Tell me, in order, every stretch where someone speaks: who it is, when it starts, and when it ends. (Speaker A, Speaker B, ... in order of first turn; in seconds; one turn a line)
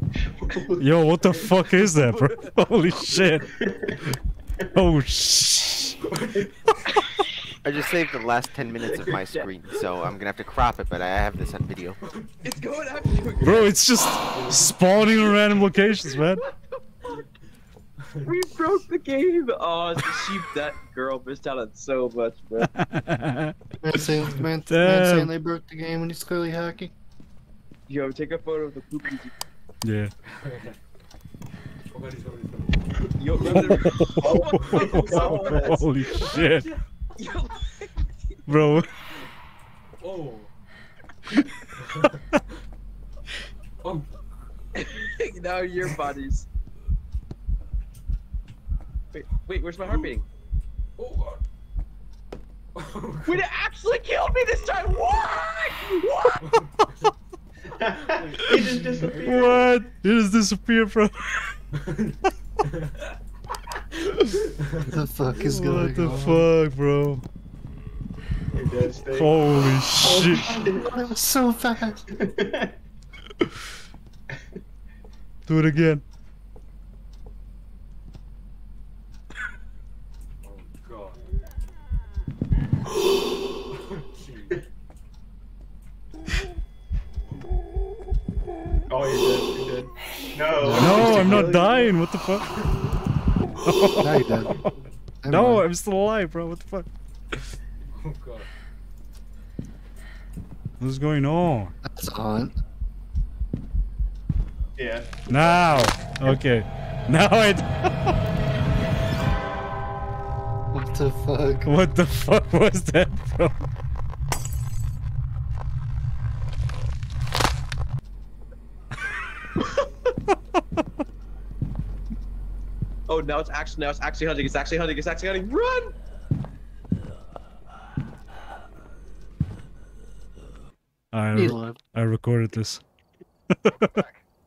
Speaker A: 0.3-0.9
Speaker B: 0.8-3.5
Speaker C: 1.9-2.3
Speaker A: 3.5-4.1
Speaker B: 4.7-6.0
Speaker C: 6.1-6.5
Speaker B: 6.7-7.0
Speaker D: 7.6-12.0
Speaker C: 8.8-9.1
Speaker E: 8.9-9.5
Speaker C: 12.1-12.5
Speaker E: 12.4-13.7
Speaker B: 13.4-16.4
Speaker C: 14.3-14.8
Speaker E: 18.2-22.7
Speaker B: 22.7-23.5
Speaker F: 23.8-26.9
Speaker B: 24.7-25.3
Speaker E: 27.9-29.3
Speaker B: 29.8-30.1
Speaker C: 30.4-30.8
Speaker C: 31.9-33.8
Speaker E: 33.2-36.2
Speaker B: 33.6-36.7
Speaker C: 34.6-35.3
Speaker C: 36.1-36.8
Speaker E: 37.2-38.1
Speaker B: 38.5-38.9
Speaker C: 40.0-40.5
Speaker C: 41.8-42.2
Speaker C: 43.8-44.1
Speaker E: 44.8-46.5
Speaker E: 49.1-50.2
Speaker C: 49.9-50.1
Speaker C: 51.0-51.4
Speaker C: 52.8-53.4
Speaker E: 53.3-56.5
Speaker C: 56.4-56.9
Speaker A: 57.7-59.7
Speaker B: 59.2-61.6
Speaker C: 61.8-63.0
Speaker C: 64.5-64.9
Speaker F: 64.8-66.5
Speaker B: 65.4-67.2
Speaker A: 68.5-70.9
Speaker B: 69.1-70.5
Speaker F: 70.2-72.0
Speaker A: 72.1-72.7
Speaker B: 75.5-76.0
Speaker C: 80.4-81.2
Speaker C: 83.8-84.6
Speaker A: 88.9-92.0
Speaker F: 90.6-91.5
Speaker B: 90.8-92.6
Speaker B: 93.6-94.7
Speaker F: 94.0-94.6
Speaker F: 95.2-95.7
Speaker B: 95.3-96.9
Speaker C: 97.9-98.5
Speaker B: 100.8-101.7
Speaker F: 101.8-102.6
Speaker A: 104.8-105.9
Speaker B: 105.3-108.1
Speaker F: 110.7-111.7
Speaker B: 111.7-113.5
Speaker E: 123.1-126.0
Speaker B: 131.1-132.8
Speaker F: 131.3-131.8
Speaker B: 133.7-134.0